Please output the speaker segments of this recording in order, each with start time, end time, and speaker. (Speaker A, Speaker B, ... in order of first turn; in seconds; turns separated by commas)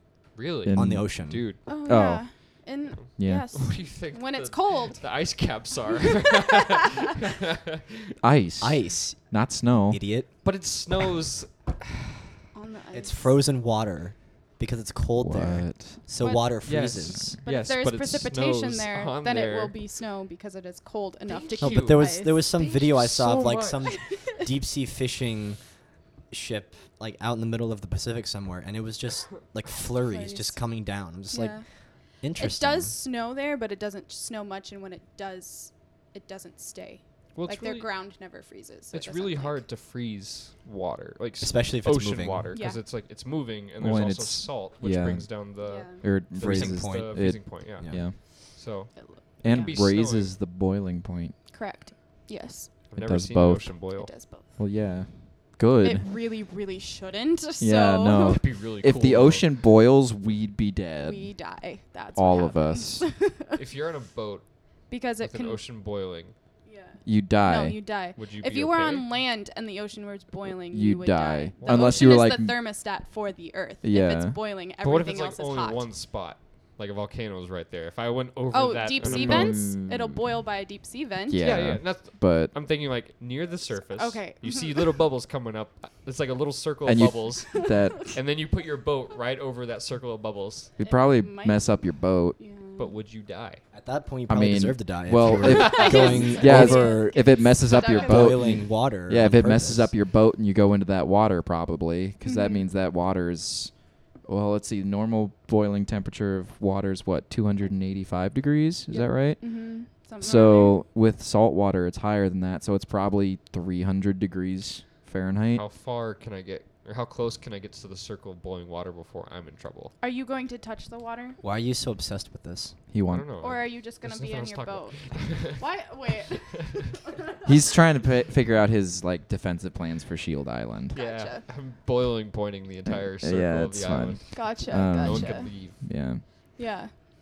Speaker A: 0.3-1.6, Speaker B: 0.7-2.3, Speaker C: 0.8-1.5, Speaker D: 1.7-5.0, Speaker A: 3.0-8.1, Speaker B: 3.2-3.7, Speaker B: 8.2-10.1, Speaker C: 8.6-10.4, Speaker A: 10.4-12.2, Speaker D: 12.5-13.4, Speaker C: 12.9-17.4, Speaker B: 15.2-16.1, Speaker D: 16.2-16.5, Speaker A: 16.6-19.8, Speaker B: 16.9-17.3, Speaker D: 17.4-22.5, Speaker A: 21.3-24.0, Speaker C: 21.6-33.0, Speaker D: 23.8-24.4, Speaker D: 30.0-39.6, Speaker A: 37.4-37.9, Speaker A: 38.9-50.3, Speaker C: 41.4-42.5, Speaker D: 42.5-42.8, Speaker B: 43.8-48.2, Speaker D: 45.6-46.0, Speaker C: 46.4-48.0, Speaker D: 49.0-49.8, Speaker B: 49.4-51.4, Speaker D: 51.5-52.7, Speaker A: 52.9-54.1, Speaker B: 53.0-53.9, Speaker D: 54.0-54.5, Speaker B: 54.6-56.1, Speaker D: 55.8-58.4, Speaker B: 57.6-61.4, Speaker A: 58.3-59.5, Speaker D: 61.0-63.6, Speaker B: 62.1-63.1, Speaker A: 63.5-66.3, Speaker D: 64.9-65.6, Speaker D: 66.7-75.9, Speaker B: 67.0-67.8, Speaker A: 68.2-69.1, Speaker B: 70.7-72.6, Speaker A: 71.6-72.2, Speaker B: 73.8-74.4, Speaker A: 74.8-79.7, Speaker D: 78.5-81.5, Speaker B: 79.0-80.2, Speaker B: 81.3-82.5, Speaker A: 81.4-90.7, Speaker D: 83.9-84.9, Speaker B: 86.8-88.2, Speaker B: 90.8-92.4, Speaker D: 90.8-93.0, Speaker A: 92.8-93.7, Speaker C: 93.7-99.9, Speaker B: 94.3-115.7, Speaker A: 95.4-96.2, Speaker D: 95.5-98.4, Speaker D: 102.2-102.7, Speaker D: 108.9-110.8, Speaker A: 115.5-120.0, Speaker D: 120.0-121.4, Speaker C: 121.4-122.8, Speaker B: 122.9-123.3, Speaker A: 123.1-125.6, Speaker D: 123.4-127.5, Speaker B: 127.5-130.9, Speaker D: 130.9-131.4, Speaker A: 130.9-135.8, Speaker B: 132.9-136.2, Speaker D: 134.3-135.9, Speaker D: 136.6-136.9